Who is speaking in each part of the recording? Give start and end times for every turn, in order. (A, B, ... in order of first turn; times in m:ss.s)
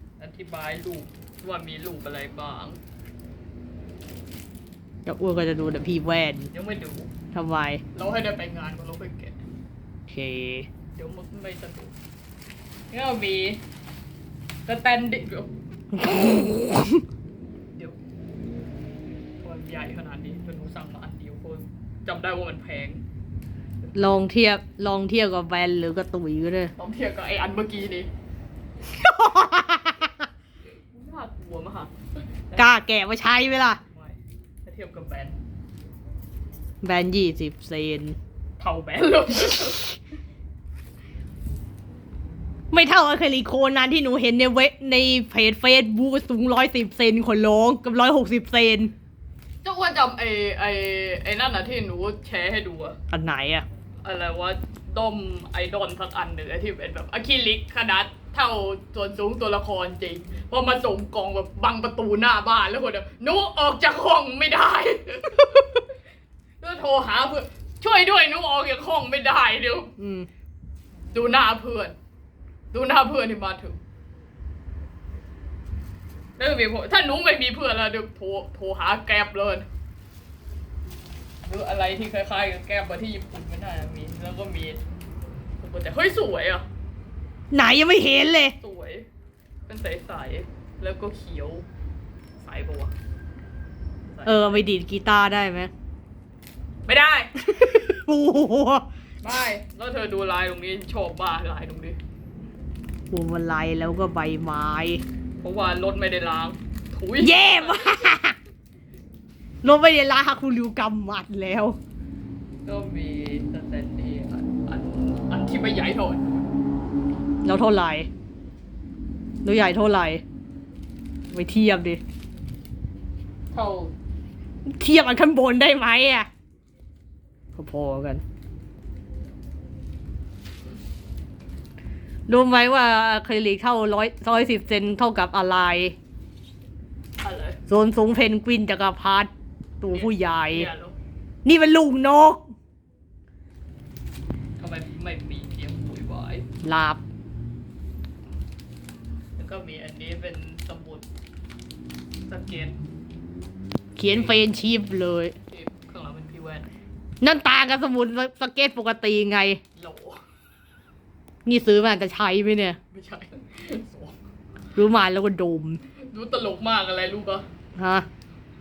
0:00.2-0:02.8 A
0:05.0-0:06.5 B
0:06.5-0:07.1 A
0:07.3-0:07.8 B
0:07.9-0:09.4 A
0:10.1-0:10.7 B
0:10.9-0:11.9 A
0:12.9-0:13.6 A
0:14.6-0:15.5 A
0:15.9-0:17.0 B
0:19.4-0:23.0 A
0:23.9-0:26.7 B
0:26.8-0:28.1 A
0:28.9-0:30.3 B
0:30.9-0:32.7 A
0:32.6-0:33.8 B
0:33.9-0:35.4 A
0:36.8-0:38.2 B
0:38.6-0:40.0 A
0:42.7-0:48.9 B
0:49.6-0:53.0 A
0:53.1-0:53.6 B
0:54.0-1:05.9 A
1:06.6-1:09.9 A
1:10.0-1:10.3 B
1:11.1-1:12.0 A
1:12.7-1:13.8 A
1:16.4-1:19.7 A
1:21.4-1:24.8 A
1:25.6-1:26.6 A
1:27.5-1:28.5 B
1:28.6-1:29.0 A
1:29.7-1:31.6 A
1:32.4-1:32.9 A
1:34.1-1:34.7 A
1:34.2-1:35.7 B
1:36.8-1:37.6 A
1:37.4-1:38.8 B
1:39.2-1:42.0 A
1:43.1-1:45.0 B
1:45.4-1:48.2 A
1:47.2-1:48.4 B
1:49.6-1:51.8 B
1:52.6-1:56.5 A
1:57.4-1:58.1 B
1:59.4-2:00.2 B
2:01.3-2:02.0 B
2:03.5-2:03.9 A
2:04.6-2:06.3 B
2:07.6-2:08.2 B
2:12.3-2:16.0 B
2:17.2-2:17.6 A
2:17.7-2:20.7 B
2:19.9-2:21.0 A
2:21.4-2:22.4 B
2:24.6-2:26.5 A
2:26.6-2:27.0 B
2:29.4-2:31.0 A
2:32.3-2:32.8 A
2:34.0-2:35.3 B
2:34.1-2:34.4 A
2:35.5-2:36.7 A
2:37.2-2:39.6 B
2:39.8-2:40.2 A
2:41.4-2:42.8 B
2:42.9-2:44.2 A
2:44.7-2:45.8 B
2:46.0-2:47.4 A
2:47.8-2:48.0 B